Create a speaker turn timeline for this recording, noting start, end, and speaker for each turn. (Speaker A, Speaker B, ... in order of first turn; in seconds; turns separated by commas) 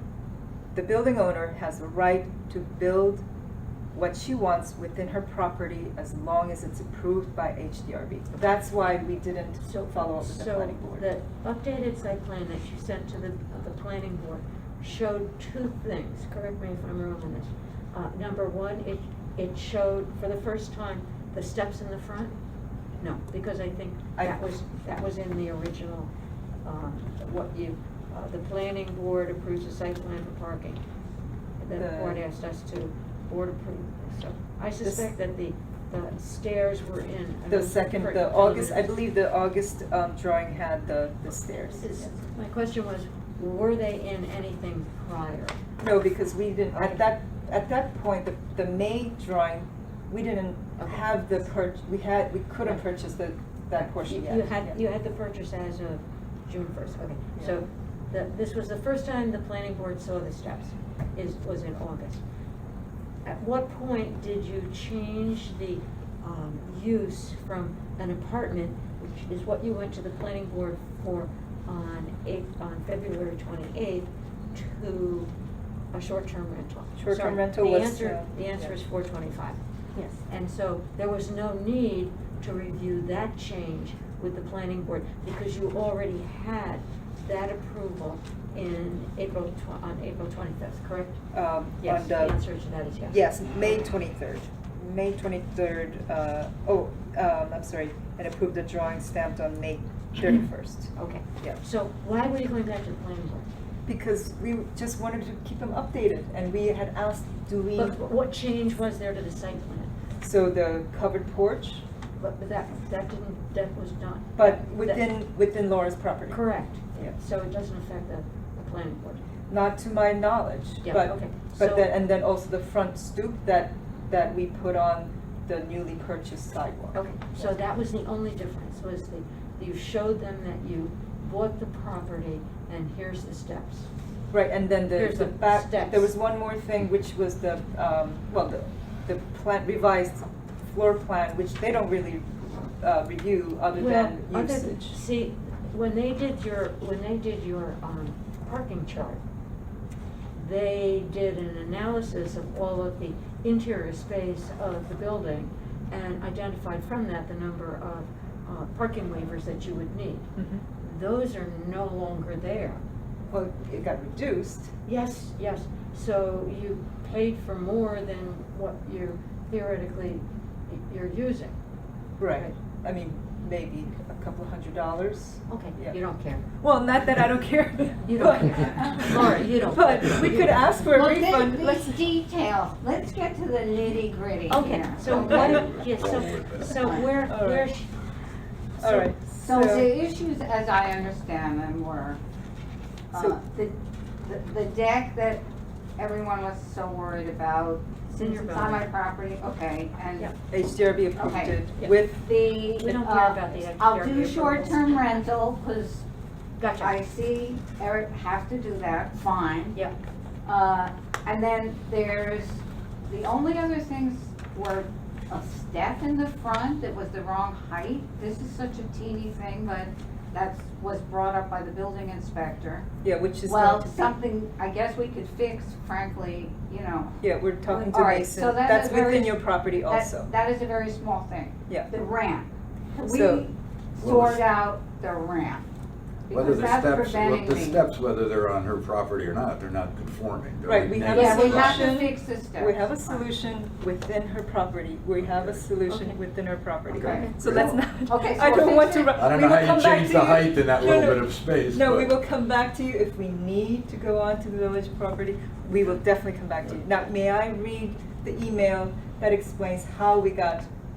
Speaker A: 0.7-3.2, Speaker A: 3.9-11.1, Speaker B: 9.6-22.4, Speaker B: 23.0-26.1, Speaker B: 26.6-27.2, Speaker A: 27.2-27.8, Speaker B: 28.1-30.8, Speaker B: 31.6-38.8, Speaker A: 31.7-32.2, Speaker A: 34.8-35.1, Speaker A: 37.5-42.1, Speaker B: 41.8-45.6, Speaker A: 45.8-54.8, Speaker B: 46.7-47.0, Speaker B: 53.8-62.2, Speaker A: 57.4-57.6, Speaker B: 63.2-75.3, Speaker B: 75.9-79.6, Speaker A: 77.0-78.8, Speaker B: 80.2-91.2, Speaker A: 91.3-92.4, Speaker B: 91.8-93.2, Speaker A: 93.1-101.6, Speaker B: 101.0-103.5, Speaker A: 103.9-108.0, Speaker B: 107.8-109.9, Speaker A: 110.2-111.8, Speaker B: 112.2-115.0, Speaker A: 114.4-116.4, Speaker B: 116.3-119.2, Speaker A: 119.5-127.6, Speaker B: 120.8-121.9, Speaker B: 126.9-133.9, Speaker A: 134.3-145.0, Speaker B: 134.9-136.1, Speaker B: 143.7-149.2, Speaker B: 150.3-162.8, Speaker A: 160.3-160.6, Speaker A: 163.3-164.7, Speaker B: 164.8-171.6, Speaker A: 172.2-176.0, Speaker B: 172.3-172.6, Speaker B: 175.5-176.5, Speaker A: 176.6-182.0, Speaker B: 178.0-180.7, Speaker C: 180.9-185.9, Speaker B: 184.5-187.9, Speaker D: 185.0-187.1, Speaker C: 186.7-187.1, Speaker A: 187.2-187.7, Speaker A: 188.8-189.9, Speaker B: 188.8-189.1, Speaker C: 189.4-192.2, Speaker C: 193.1-195.4, Speaker C: 196.0-200.3, Speaker B: 198.2-198.8, Speaker A: 200.5-202.2, Speaker C: 201.2-201.6, Speaker C: 202.2-206.1, Speaker B: 202.8-205.2, Speaker B: 206.6-207.0, Speaker C: 206.8-209.8, Speaker C: 210.4-222.9, Speaker A: 223.0-224.0, Speaker C: 223.4-235.6, Speaker A: 227.2-230.3, Speaker A: 233.1-233.4, Speaker D: 234.0-234.4, Speaker C: 236.3-237.8, Speaker D: 236.3-242.0, Speaker A: 240.7-260.7, Speaker C: 241.0-243.2, Speaker D: 245.2-245.7, Speaker B: 245.9-246.2, Speaker C: 246.9-249.2, Speaker D: 246.9-247.7, Speaker B: 247.1-247.4, Speaker D: 249.2-252.1